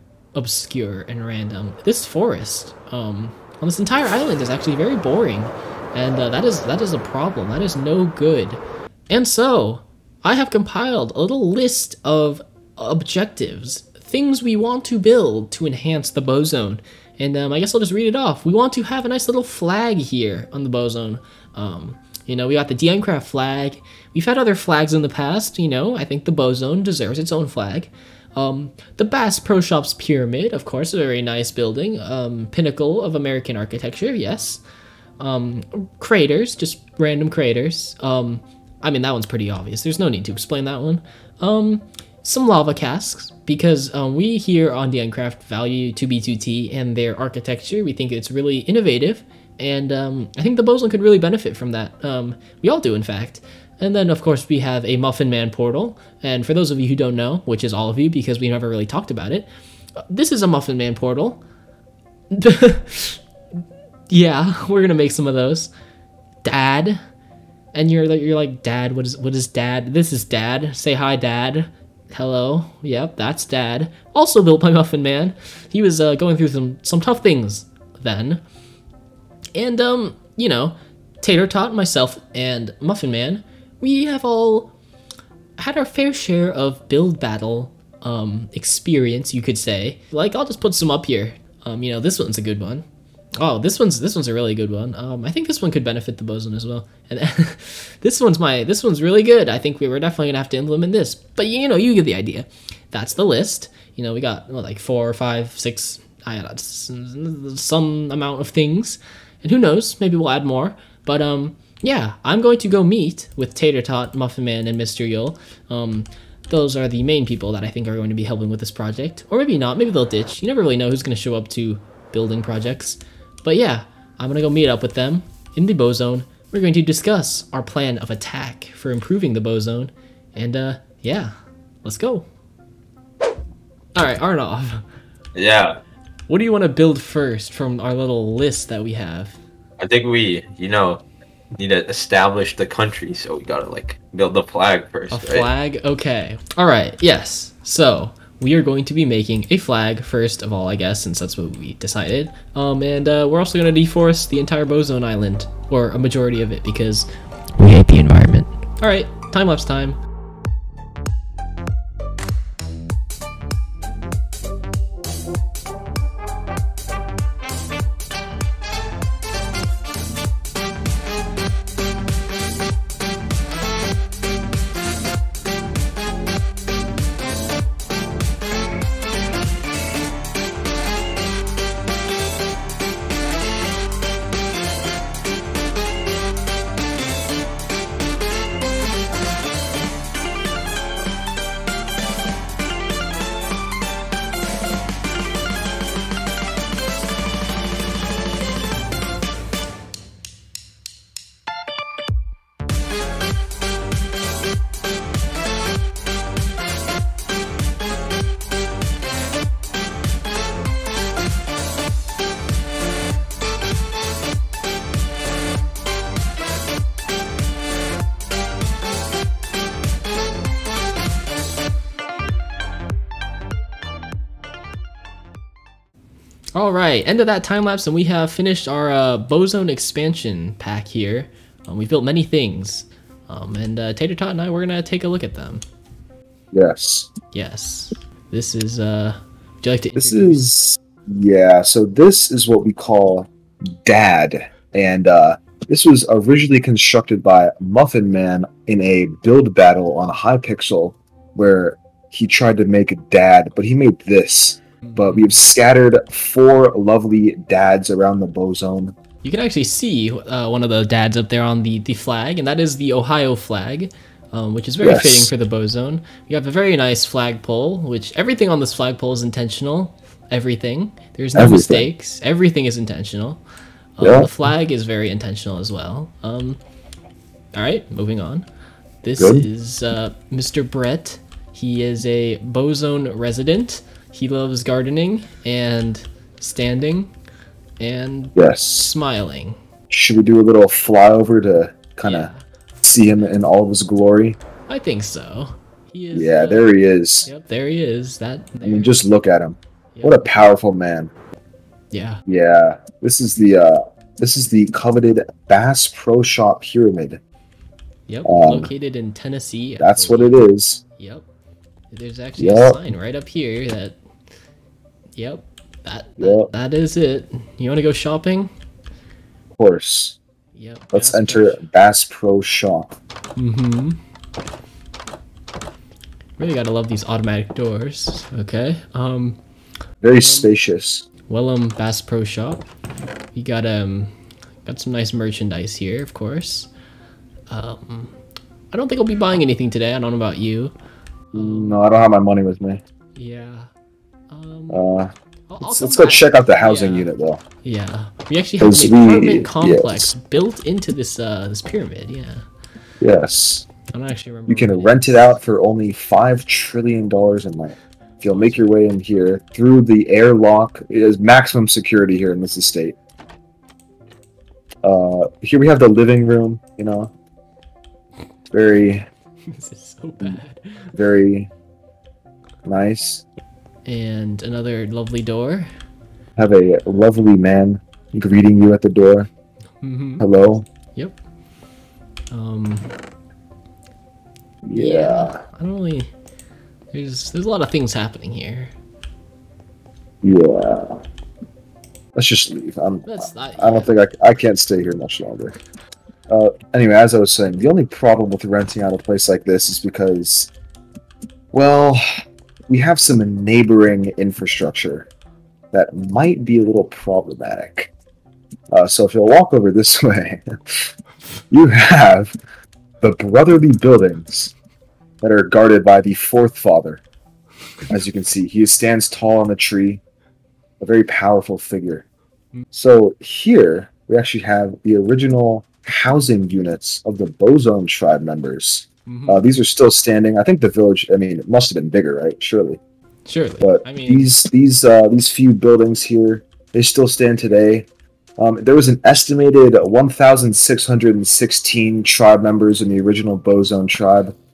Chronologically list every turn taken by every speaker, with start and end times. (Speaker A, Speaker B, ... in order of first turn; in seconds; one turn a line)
Speaker A: 0.3-34.6
Speaker A: 35.2-59.5
Speaker A: 60.1-61.4
Speaker A: 62.3-63.2
Speaker A: 64.1-65.7
Speaker A: 66.4-67.0
Speaker A: 67.7-78.4
Speaker A: 79.5-84.7
Speaker A: 85.6-92.8
Speaker A: 93.4-131.3
Speaker A: 131.8-132.3
Speaker A: 133.9-134.8
Speaker B: 135.3-135.8
Speaker A: 136.3-139.4
Speaker B: 139.8-141.0
Speaker B: 141.5-145.5
Speaker A: 145.1-160.0
Speaker A: 226.5-235.6
Speaker C: 236.5-237.1
Speaker A: 237.3-240.4
Speaker C: 239.9-258.9
Speaker A: 254.8-255.4
Speaker A: 259.2-273.4
Speaker C: 264.8-265.3
Speaker C: 271.3-271.9
Speaker A: 274.0-276.6
Speaker C: 274.0-274.3
Speaker A: 277.5-278.4
Speaker A: 279.0-287.1
Speaker C: 279.2-279.5
Speaker A: 287.8-289.6
Speaker C: 288.4-288.9
Speaker C: 289.9-294.4
Speaker A: 292.0-292.4
Speaker A: 294.7-296.7
Speaker C: 296.1-297.3
Speaker A: 297.2-299.0
Speaker C: 298.6-301.1
Speaker A: 299.9-300.5
Speaker A: 301.9-302.2
Speaker C: 302.3-307.2
Speaker A: 308.1-310.4
Speaker C: 308.2-308.7
Speaker C: 309.8-310.8
Speaker A: 311.0-311.2
Speaker A: 311.9-314.0
Speaker C: 312.4-312.9
Speaker A: 315.1-318.5
Speaker C: 316.2-316.5
Speaker C: 319.6-320.2
Speaker A: 320.5-321.6
Speaker C: 320.9-322.9
Speaker A: 323.4-324.0
Speaker A: 326.4-329.4
Speaker C: 330.0-331.1
Speaker A: 330.1-330.5
Speaker A: 331.3-332.7
Speaker A: 333.3-334.1
Speaker A: 334.6-336.7
Speaker A: 337.5-338.1
Speaker A: 338.7-340.7
Speaker A: 341.3-341.9
Speaker C: 341.3-342.8
Speaker A: 343.1-343.7
Speaker A: 344.3-344.8
Speaker C: 344.7-347.4
Speaker A: 345.5-347.1
Speaker A: 347.6-352.4
Speaker C: 348.6-350.1
Speaker C: 353.0-353.6
Speaker A: 353.9-355.4
Speaker C: 354.5-362.9
Speaker A: 358.3-358.7
Speaker C: 364.8-367.1
Speaker C: 368.5-369.1
Speaker A: 369.5-370.9
Speaker C: 370.9-371.5
Speaker C: 372.6-373.2
Speaker A: 373.9-375.7
Speaker C: 376.4-379.3
Speaker A: 379.8-380.2
Speaker C: 380.2-380.7
Speaker A: 382.3-382.9
Speaker C: 384.6-385.4
Speaker A: 384.7-386.1
Speaker A: 386.9-388.7
Speaker C: 390.2-391.0
Speaker C: 392.1-395.6
Speaker A: 393.1-394.0
Speaker C: 396.3-400.5
Speaker C: 401.5-402.0
Speaker C: 402.7-405.1
Speaker C: 405.7-407.9
Speaker C: 408.7-410.9
Speaker C: 411.5-412.4
Speaker C: 413.0-414.5
Speaker C: 415.2-417.0
Speaker C: 417.9-420.0
Speaker C: 420.8-422.0
Speaker C: 422.7-432.8
Speaker A: 429.1-429.4
Speaker A: 433.2-434.3
Speaker C: 433.6-444.3